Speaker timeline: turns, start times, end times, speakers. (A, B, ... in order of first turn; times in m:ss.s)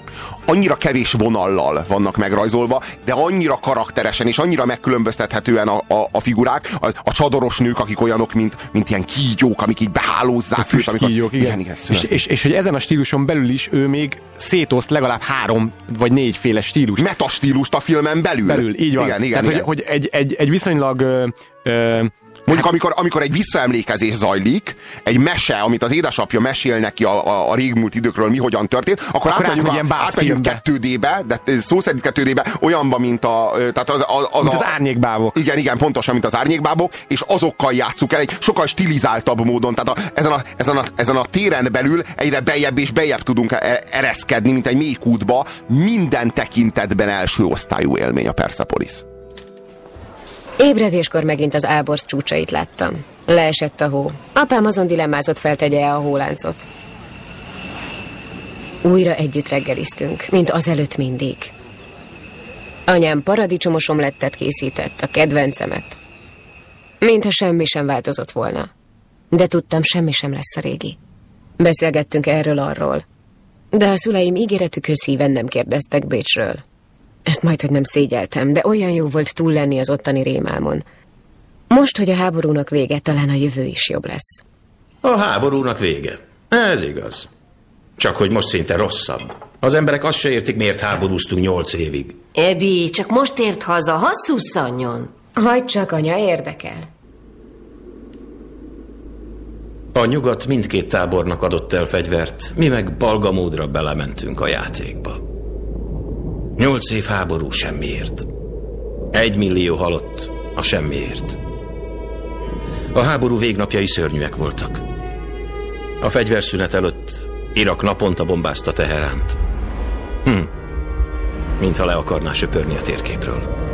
0:00.5-0:12.2 A
0:10.6-0:17.0 B
0:17.0-0:19.7 A
0:18.4-0:22.6 B
0:22.5-0:34.7 A
0:29.2-0:30.6 B
0:34.4-0:35.4 B
0:35.3-0:49.0 A
0:50.6-0:56.6 C
0:58.8-1:01.5 C
1:02.9-1:06.0 C
1:07.0-1:08.7 C
1:09.3-1:11.0 C
1:11.6-1:13.0 C
1:13.7-1:16.6 C
1:17.2-1:20.8 C
1:21.7-1:24.4 C
1:25.0-1:27.3 D
1:28.0-1:32.2 D
1:32.4-1:35.1 E
1:35.3-1:36.9 C
1:39.9-1:45.2 D
1:46.6-1:48.3 D
1:49.1-1:51.4 D
1:52.9-1:54.8 D
1:56.0-1:59.4 D
2:01.6-2:03.5 D